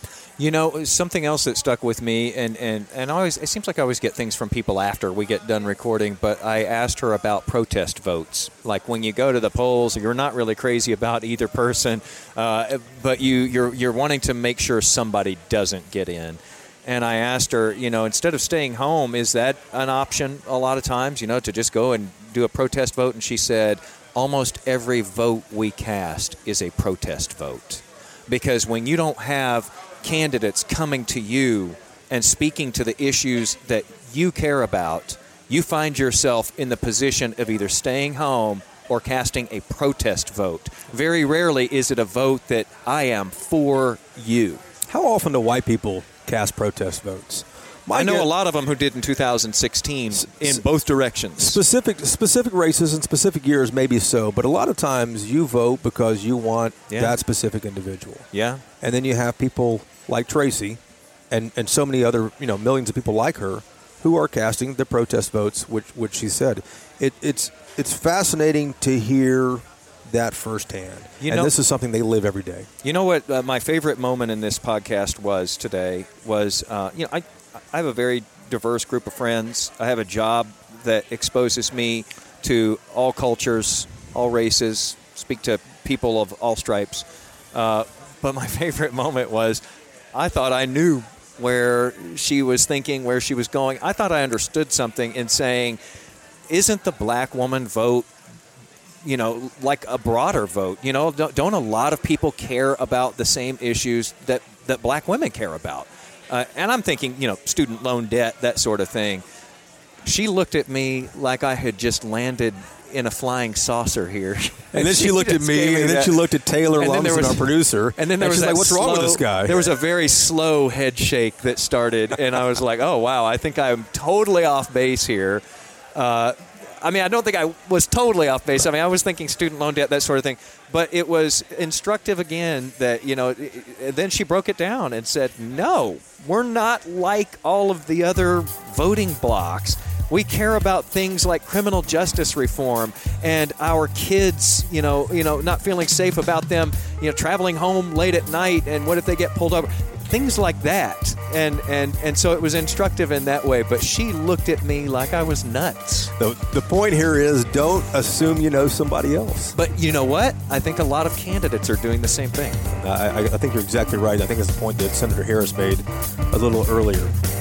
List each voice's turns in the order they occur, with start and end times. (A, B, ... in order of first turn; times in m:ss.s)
0:00.4-0:44.6 A
0:44.9-0:48.3 B
0:47.9-0:51.6 A
0:50.3-0:50.6 B
0:51.4-0:58.3 B
0:56.9-0:57.2 A
0:58.3-0:58.6 A
0:58.8-1:00.8 B
1:01.3-1:12.7 B
1:11.2-1:11.5 A
1:12.8-1:29.6 A
1:30.1-1:35.8 A
1:36.5-1:38.1 A
1:39.0-1:49.2 A
1:50.0-1:56.2 A
1:54.7-1:59.7 B
1:56.8-2:05.4 A
2:06.0-2:36.1 A
2:36.2-2:39.6 B
2:39.6-2:42.6 A
2:42.7-2:47.1 B